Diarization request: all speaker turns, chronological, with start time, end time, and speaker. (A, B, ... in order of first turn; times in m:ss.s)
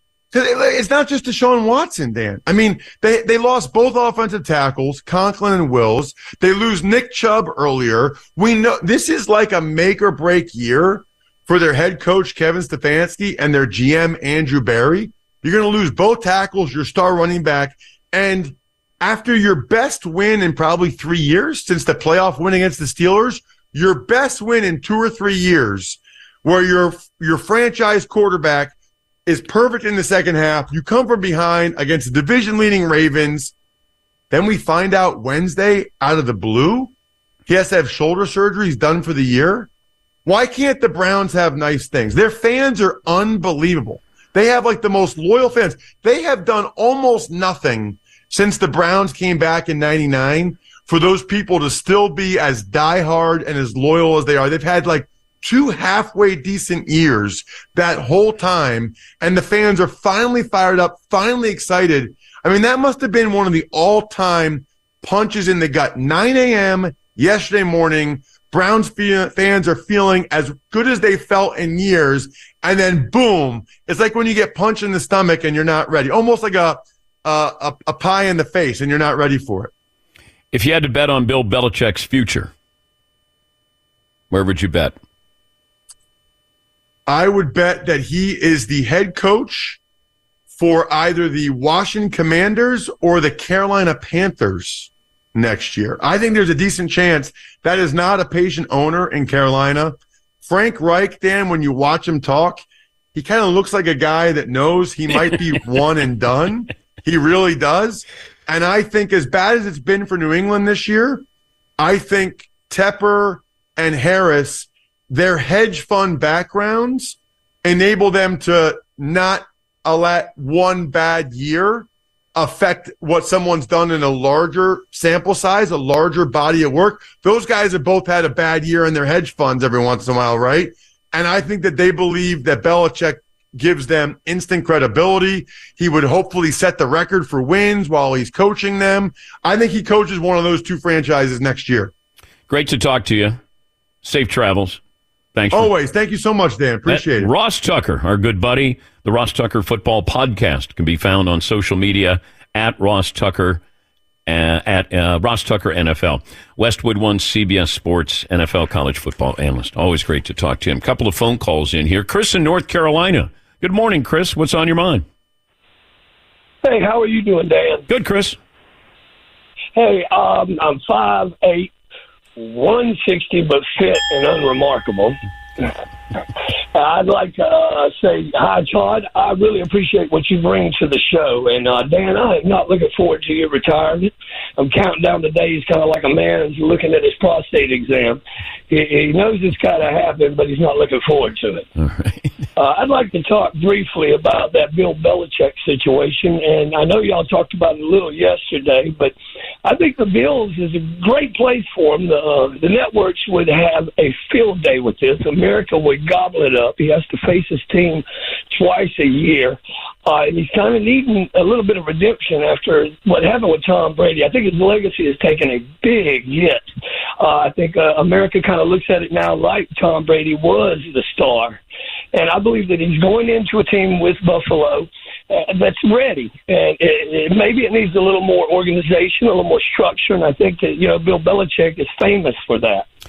0:00.3-0:28.7 A
0:29.3-0:33.5 A
0:34.3-0:36.9 A
0:37.5-0:39.7 A
0:40.2-1:19.7 A
1:20.5-1:22.5 B
1:24.3-1:25.0 B
1:27.1-1:29.8 A
1:30.5-1:42.6 A
1:43.2-1:51.2 A
1:51.8-2:21.9 A
2:22.5-2:23.4 B
2:24.0-2:24.8 B
2:25.4-2:25.7 B
2:25.5-2:27.3 A
2:26.9-2:33.6 B
2:34.3-2:45.0 B
2:46.6-2:47.8 C
2:47.9-2:48.4 B
2:49.8-2:51.7 C
2:52.4-2:55.2 C
2:56.7-3:11.6 C
3:11.8-3:12.3 B
3:12.6-3:19.1 C
3:19.6-3:36.6 C
3:37.2-3:41.6 C
3:42.1-3:52.9 C